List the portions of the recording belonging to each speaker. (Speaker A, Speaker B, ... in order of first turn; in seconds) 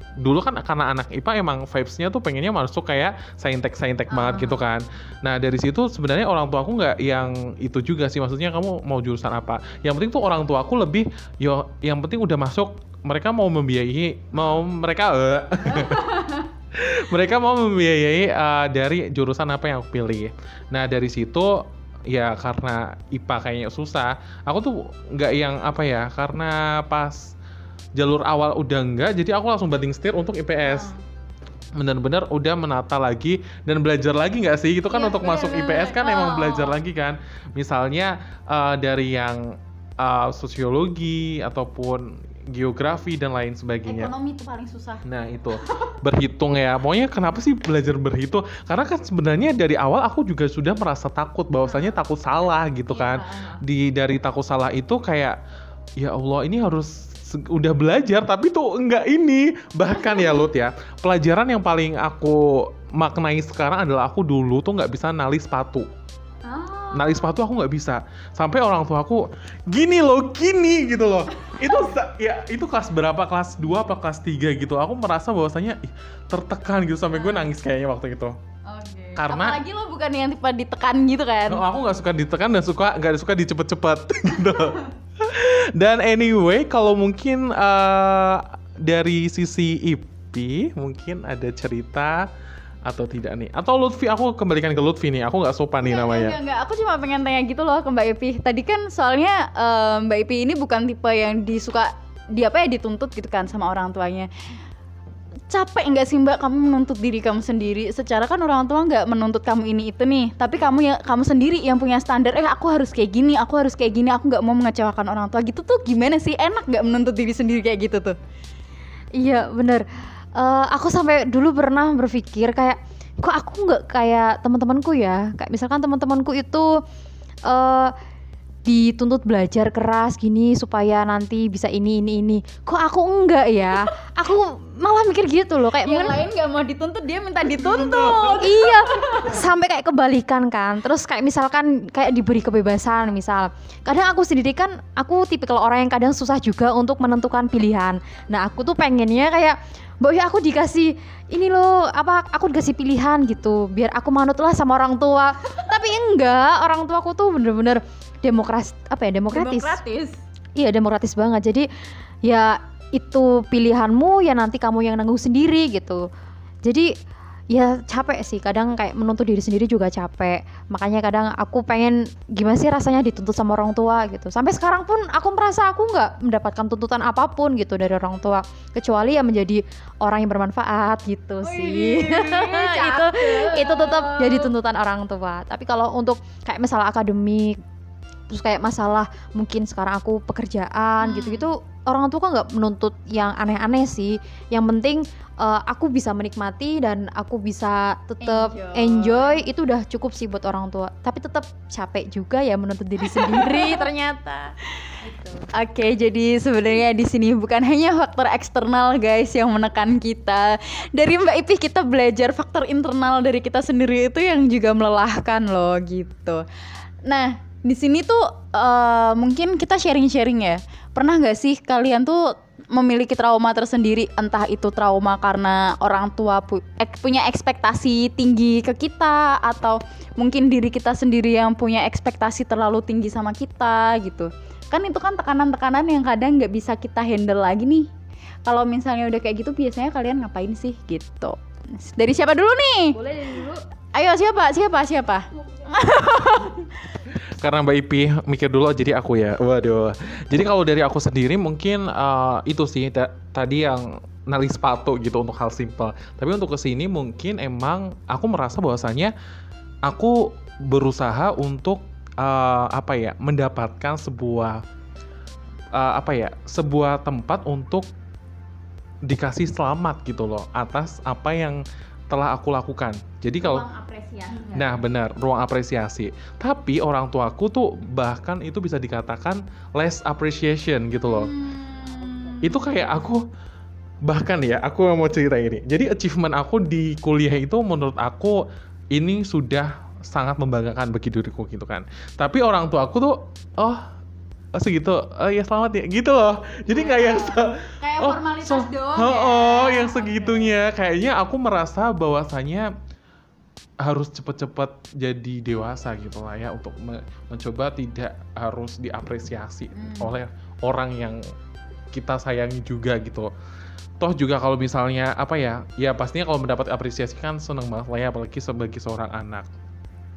Speaker A: 0.2-16.2, 16.7-27.3, 27.9-30.9, 31.8-44.1, 45.0-55.4, 56.0-65.9, 66.9-78.3, 79.2-79.6, 81.5-92.2, 92.8-96.4, 247.4-259.1, 259.9-264.6, 265.7-267.9, 269.1-273.6, 274.5-281.3, 282.4-283.2, 284.0-288.4, 288.9-293.8, 294.5-302.7, 303.8-311.2, 311.9-313.3, 314.0-319.5
Speaker B: 4.1-4.7, 15.7-16.5, 30.6-30.9, 34.9-36.8, 43.8-45.0, 45.6-45.9, 52.9-53.6, 59.9-60.5, 66.4-67.3, 71.5-71.9, 77.1-77.5, 78.7-81.6, 95.8-104.3, 105.5-118.2, 135.8-139.4, 159.3-160.2, 181.4-184.5, 191.0-191.5, 198.2-199.4, 203.0-203.9, 204.8-216.4, 217.0-237.9, 238.4-243.0, 243.9-246.7, 273.4-274.7, 281.1-282.9, 296.7-300.5, 309.7-310.2
Speaker C: 119.2-126.8, 127.5-127.9, 128.7-136.2, 138.1-159.8, 160.6-161.7, 162.2-166.0, 166.7-166.9, 167.5-187.6, 188.3-204.5, 242.9-243.6